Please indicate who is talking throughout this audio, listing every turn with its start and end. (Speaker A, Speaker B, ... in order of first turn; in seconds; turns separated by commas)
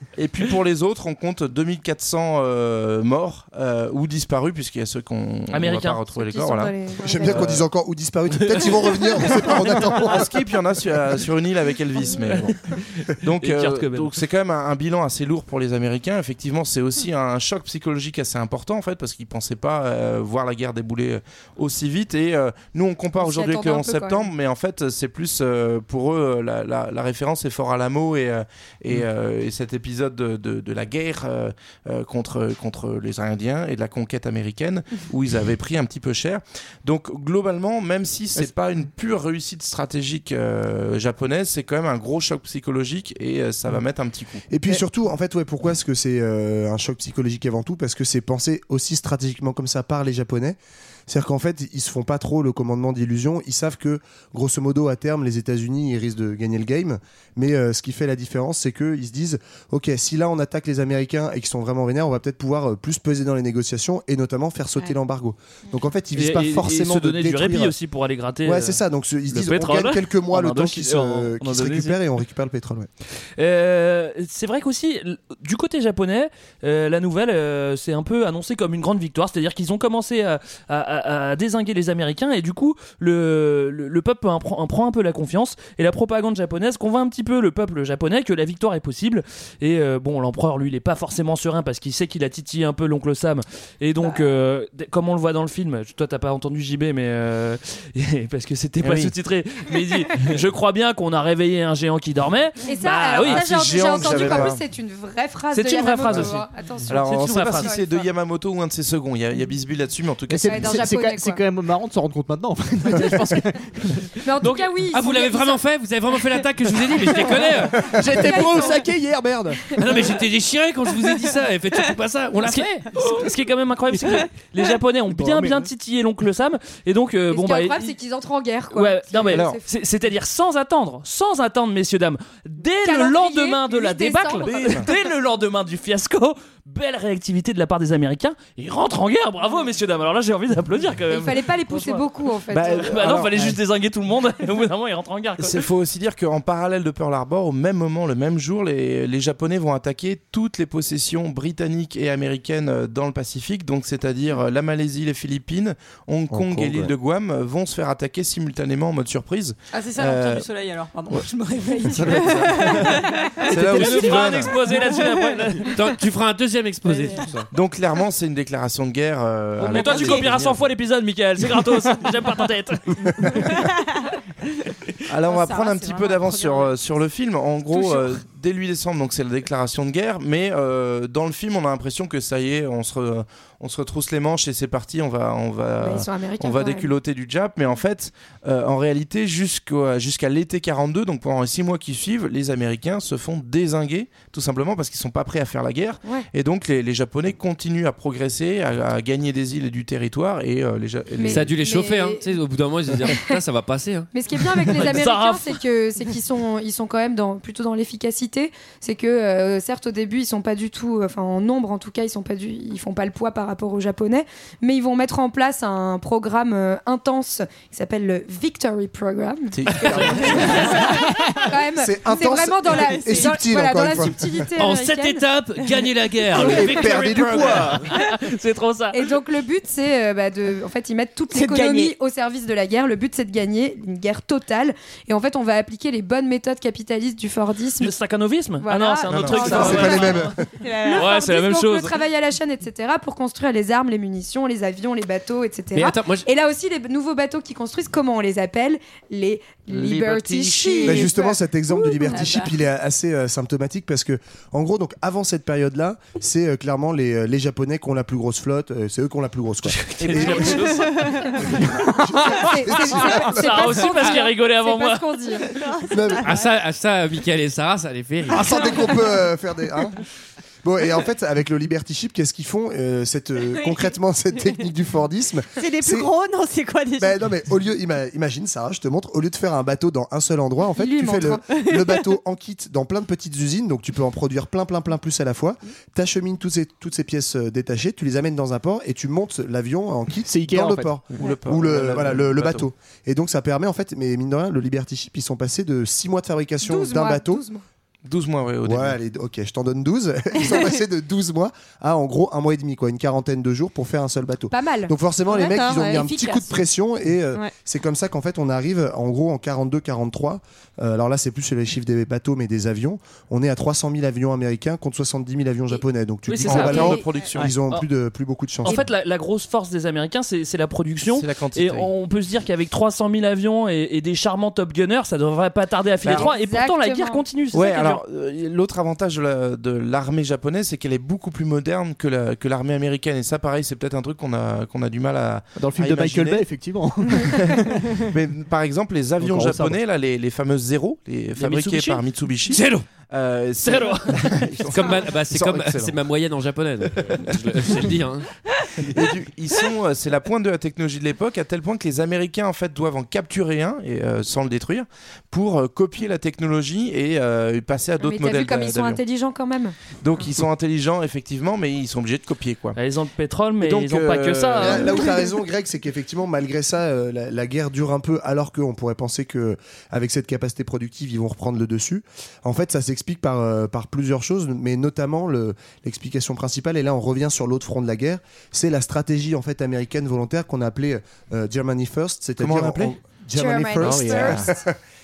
Speaker A: 0.2-7.7, Speaker B: 5.5-6.3, Speaker C: 6.2-7.5, Speaker D: 7.0-10.3, Speaker A: 9.4-44.5, Speaker B: 12.2-14.1, Speaker C: 23.2-24.3, Speaker D: 44.5-50.6, Speaker D: 51.1-67.8, Speaker B: 66.2-68.8, Speaker D: 68.5-72.9, Speaker B: 69.3-72.0, Speaker B: 73.4-104.5, Speaker A: 98.8-99.1, Speaker C: 102.6-108.1, Speaker A: 103.2-104.6, Speaker B: 105.5-107.7, Speaker A: 106.1-110.9, Speaker E: 110.3-114.1, Speaker C: 110.5-111.4, Speaker C: 114.2-115.6, Speaker B: 114.4-114.7, Speaker F: 114.9-117.9, Speaker E: 117.2-120.0, Speaker C: 118.1-118.9, Speaker F: 119.8-122.9, Speaker B: 122.5-127.9, Speaker E: 124.0-124.2, Speaker E: 125.1-125.7, Speaker C: 127.3-129.7, Speaker B: 128.7-142.1, Speaker A: 129.3-129.6, Speaker C: 132.8-134.7, Speaker A: 134.4-134.9, Speaker C: 141.1-143.0, Speaker A: 142.5-143.6, Speaker B: 142.7-145.7, Speaker A: 145.4-160.4, Speaker D: 156.3-156.9, Speaker G: 159.7-164.9, Speaker A: 161.8-164.6, Speaker B: 163.5-165.8, Speaker F: 165.7-167.3, Speaker A: 167.2-170.7, Speaker B: 169.6-173.5, Speaker G: 169.7-170.2, Speaker A: 175.1-201.6, Speaker G: 175.2-176.8, Speaker G: 177.7-178.1, Speaker C: 185.8-186.9, Speaker C: 201.2-202.3, Speaker F: 201.3-204.1, Speaker C: 204.1-225.2, Speaker B: 204.7-205.6, Speaker A: 219.5-220.6, Speaker B: 219.8-220.9, Speaker D: 221.8-224.4, Speaker F: 224.6-227.7, Speaker B: 226.3-229.0, Speaker D: 226.4-227.8, Speaker E: 227.1-227.6, Speaker C: 228.9-237.9, Speaker H: 231.3-231.9, Speaker B: 237.8-240.3, Speaker C: 238.6-240.3, Speaker A: 239.1-239.9, Speaker D: 239.3-240.4, Speaker H: 240.6-241.1, Speaker C: 240.8-251.2, Speaker B: 240.9-242.0, Speaker F: 245.7-246.3, Speaker A: 249.8-250.6, Speaker D: 250.8-263.9, Speaker G: 250.9-252.5, Speaker B: 259.7-261.5, Speaker A: 260.0-260.5, Speaker C: 262.2-265.5, Speaker B: 262.7-265.2, Speaker H: 265.5-266.4, Speaker D: 265.9-266.3, Speaker F: 266.2-269.0, Speaker D: 268.3-270.0, Speaker D: 270.6-276.1, Speaker H: 275.6-277.1, Speaker D: 277.0-297.4, Speaker C: 280.8-281.4, Speaker H: 281.7-282.0, Speaker E: 290.3-291.0, Speaker A: 291.1-292.7, Speaker C: 296.6-297.6, Speaker A: 298.1-299.0, Speaker D: 298.6-318.8, Speaker C: 304.5-304.9, Speaker H: 305.3-306.1, Speaker G: 305.4-306.5, Speaker B: 316.3-317.9, Speaker A: 316.4-317.6, Speaker C: 316.5-317.1, Speaker B: 318.6-328.0, Speaker A: 320.9-321.9, Speaker A: 326.0-326.3, Speaker C: 326.0-327.2, Speaker A: 327.5-336.5, Speaker E: 335.6-338.1, Speaker A: 337.2-346.0, Speaker E: 339.2-339.8, Speaker B: 341.4-342.0, Speaker F: 342.5-342.9, Speaker B: 343.6-344.4, Speaker F: 344.7-348.3, Speaker A: 347.0-347.4, Speaker A: 348.8-359.0, Speaker C: 358.0-359.8, Speaker A: 360.0-362.8, Speaker B: 362.8-365.1, Speaker A: 363.6-365.1, Speaker D: 364.6-384.8, Speaker A: 382.4-383.0, Speaker C: 383.3-384.6, Speaker A: 383.8-384.6